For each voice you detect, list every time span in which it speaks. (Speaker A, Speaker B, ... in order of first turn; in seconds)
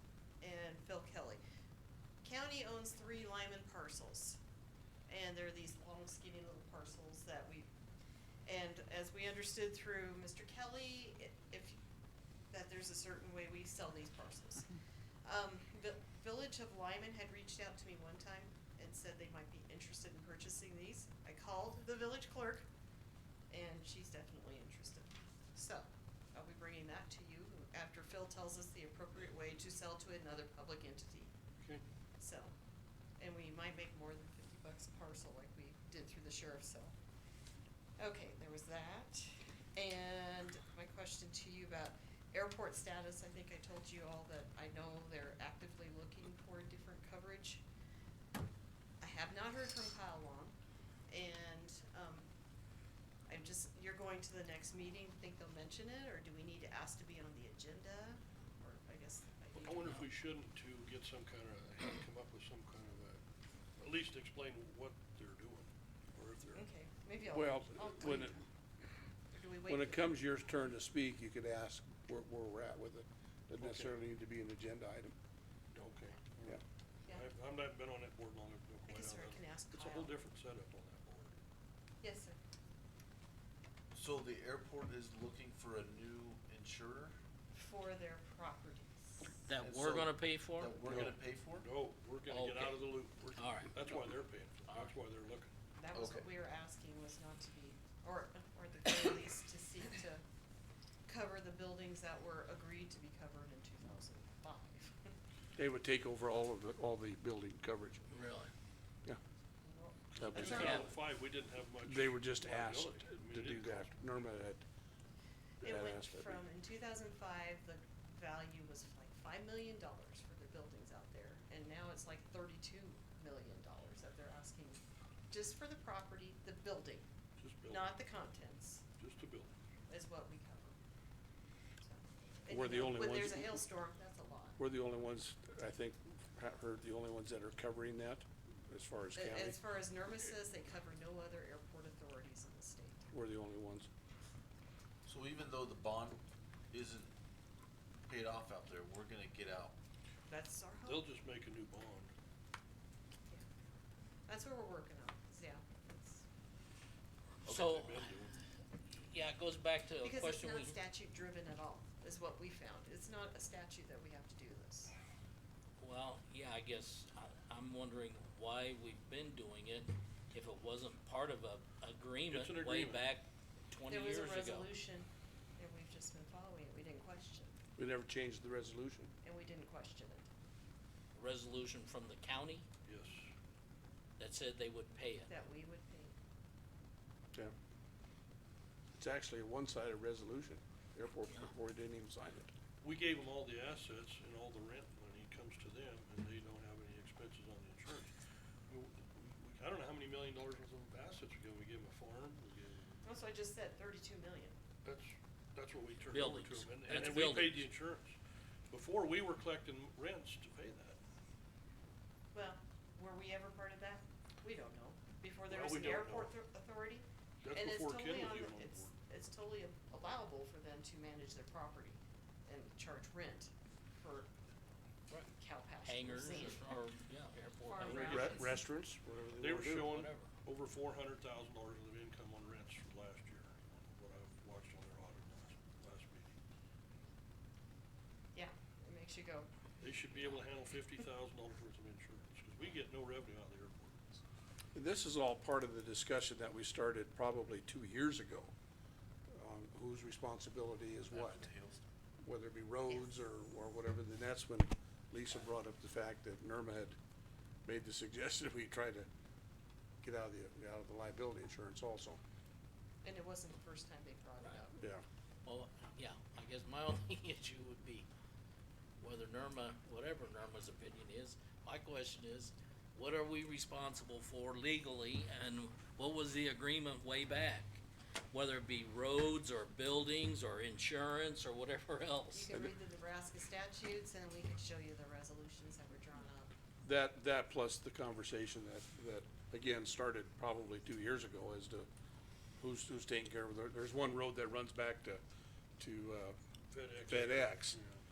Speaker A: 0.4-1.4, 2.2-4.4, 5.1-7.7, 8.4-11.8, 12.5-14.7, 15.2-22.6, 23.5-31.3, 32.2-32.5, 33.2-36.9, 38.0-47.6, 49.0-50.5, 51.1-52.3, 53.3-60.0, 66.5-68.4, 69.3-70.2, 78.9-80.1, 82.0-82.4, 87.5-89.3, 95.8-100.2, 101.1-105.1, 109.6-110.9, 115.6-127.1, 127.7-128.8, 129.9-130.8, 131.8-134.6, 139.1-143.1, 150.3-151.0, 154.3-156.2, 160.0-164.9, 173.9-177.6, 179.2-180.3, 185.3-186.2, 203.0-204.6, 212.3-224.3, 225.4-226.8, 227.6-228.6, 238.3-239.5, 252.9-253.1, 263.0-264.8, 282.3-286.5
Speaker B: 59.5-63.2, 63.8-66.7, 73.6-73.9, 75.7-81.4, 91.6-95.5, 110.2-113.9, 127.4-127.9, 129.0-129.6, 150.8-152.1, 157.4-158.4, 172.3-173.1, 182.8-183.3, 192.8-198.1, 198.7-203.0, 204.8-208.2, 208.7-211.0, 215.5-216.3, 217.4-218.9, 227.8-228.3, 229.4-236.3, 239.8-244.2, 296.7-298.0
Speaker C: 67.3-68.4, 69.7-75.2, 105.5-108.1, 110.2-110.8, 111.8-114.7, 115.6-116.4, 132.5-133.6, 134.6-139.6, 143.1-143.9, 177.8-179.1, 189.0-192.5, 227.8-230.0, 244.7-248.5, 249.3-251.4, 252.2-257.0, 257.6-259.1, 260.0-262.2, 264.8-265.0, 286.8-291.9, 292.6-295.2, 295.8-296.4, 297.0-297.8
Speaker D: 83.9-87.1, 89.6-91.7, 95.9-96.3, 145.1-147.1, 148.1-149.8, 251.0-251.9
Speaker E: 89.4-91.1, 92.3-92.8, 93.3-93.8, 108.1-108.5, 110.5-110.9, 157.5-158.1, 159.0-160.7, 165.8-174.7, 181.1-182.7, 184.2-185.3, 206.1-207.7, 225.8-228.3, 229.8-230.3, 265.4-268.1, 269.0-282.7